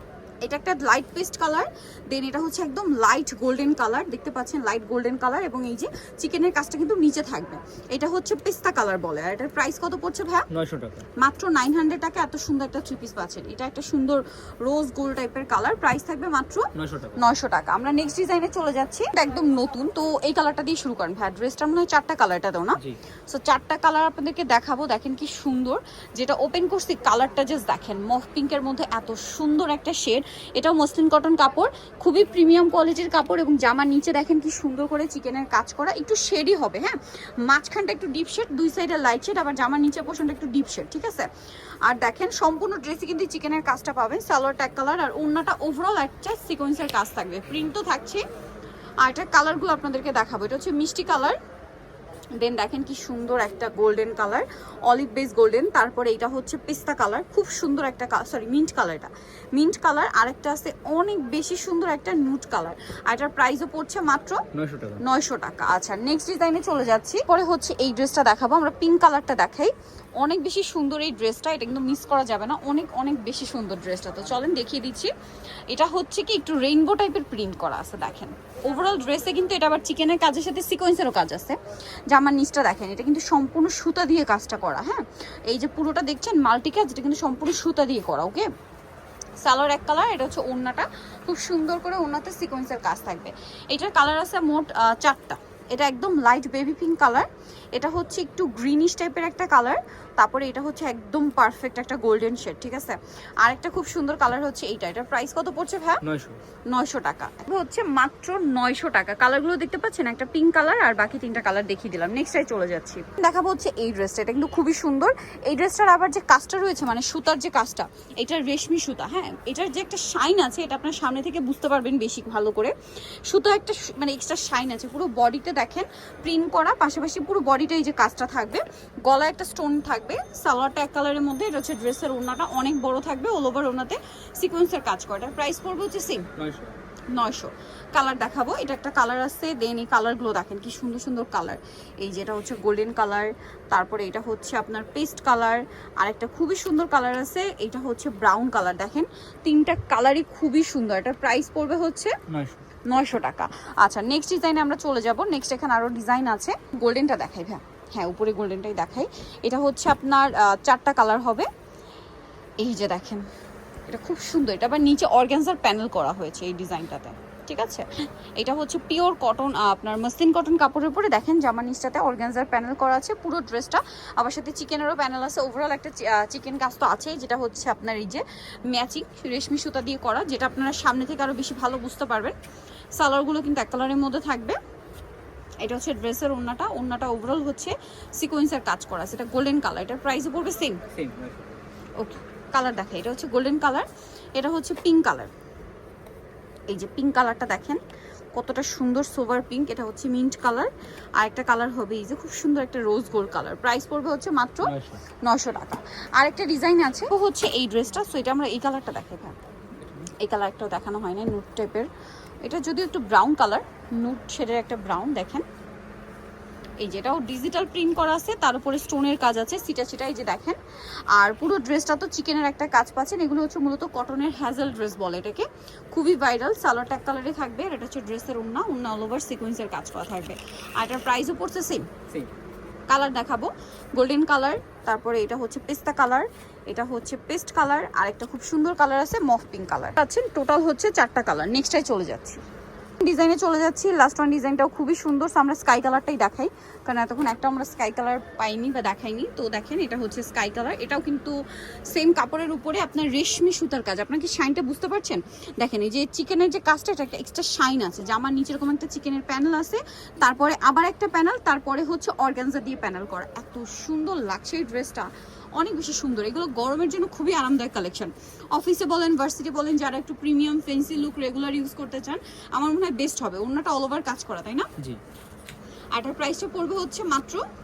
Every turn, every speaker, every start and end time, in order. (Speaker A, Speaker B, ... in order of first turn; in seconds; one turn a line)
Speaker A: 0.4-10.5
Speaker B: 10.5-11.1
Speaker A: 11.2-41.3
Speaker B: 16.8-17.2
Speaker A: 41.8-48.2
Speaker A: 49.0-51.4
Speaker A: 52.4-64.5
Speaker B: 64.5-65.0
Speaker A: 65.0-75.1
Speaker A: 75.7-81.6
Speaker A: 82.1-88.5
Speaker A: 89.4-106.0
Speaker B: 106.0-106.4
Speaker A: 106.7-122.7
Speaker A: 123.3-136.3
Speaker B: 136.4-136.8
Speaker A: 137.1-152.2
Speaker B: 152.3-152.6
Speaker A: 152.9-161.5
Speaker A: 162.6-163.3
Speaker A: 163.9-167.9
Speaker A: 168.4-182.3
Speaker A: 183.0-184.6
Speaker A: 185.6-190.8
Speaker B: 190.9-191.6
Speaker A: 192.0-195.3
Speaker A: 196.7-197.8
Speaker A: 198.3-209.4
Speaker B: 204.6-205.0
Speaker B: 209.8-210.1
Speaker A: 210.2-211.9
Speaker A: 212.4-215.5
Speaker A: 216.8-220.6
Speaker A: 221.1-231.9
Speaker A: 232.9-242.4
Speaker A: 243.0-274.7
Speaker A: 275.9-277.4